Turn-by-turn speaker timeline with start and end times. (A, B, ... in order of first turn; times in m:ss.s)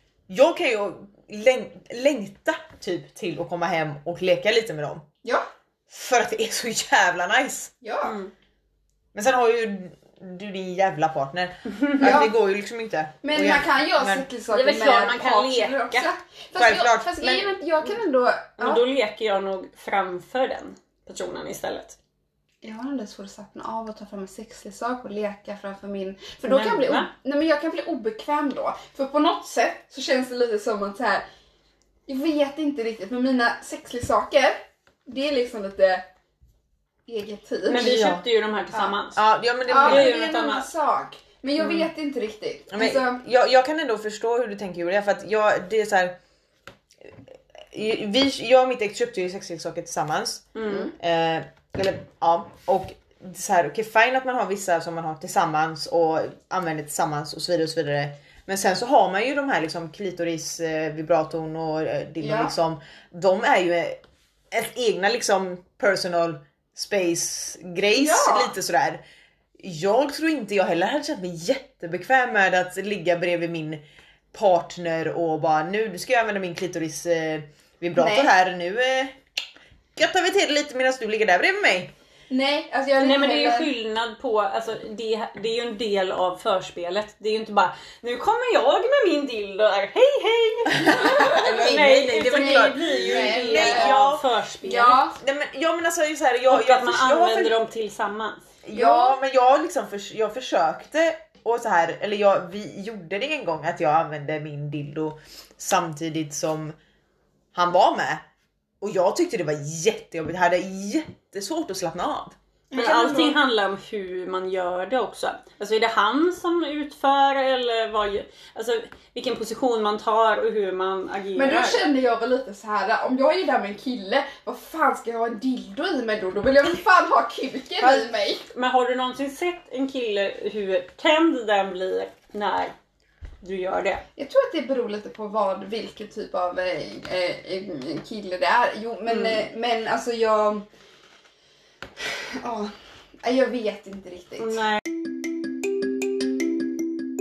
0:00.3-0:05.0 A
0:05.9-0:07.7 A
0:07.8-0:08.2 B
0:08.0-0:08.3 C
0:09.1-0:14.3 A
0:11.8-0:12.1 C
0:12.0-0:12.3 B
0:13.2-0:18.8 B
0:14.5-0:16.1 C
0:16.6-0:17.5 A
0:18.6-0:22.0 C
0:22.6-0:31.2 B
0:26.5-0:27.1 C
0:32.1-0:36.1 B
0:37.1-0:38.0 B
0:37.7-0:40.7 C
0:37.8-0:38.2 A
0:39.2-0:40.2 A
0:39.7-0:43.2 B
0:42.7-0:46.2 A
0:47.7-1:04.0 A
0:50.6-0:50.9 C
0:50.7-0:50.9 B
1:02.2-1:02.5 B
1:04.5-1:09.0 A
1:08.0-1:08.5 B
1:09.6-1:13.8 A
1:14.3-1:19.2 A
1:18.0-1:18.3 B
1:20.0-1:21.9 A
1:22.3-1:23.7 B
1:23.0-1:35.0 C
1:30.8-1:34.2 A
1:30.9-1:31.5 B
1:32.2-1:34.0 B
1:34.6-1:35.2 B
1:35.2-1:37.6 A
1:36.5-1:38.5 C
1:38.6-1:46.8 A
1:38.7-1:39.2 B
1:47.5-1:48.2 A
1:48.8-1:52.4 A
1:52.7-1:53.4 B
1:52.8-2:01.9 C
2:01.4-2:08.4 B
2:07.8-2:12.7 C
2:13.4-2:14.0 C
2:14.2-2:20.7 B
2:19.1-2:19.4 C
2:22.1-2:22.7 B
2:23.2-2:24.6 B
2:24.4-2:24.8 C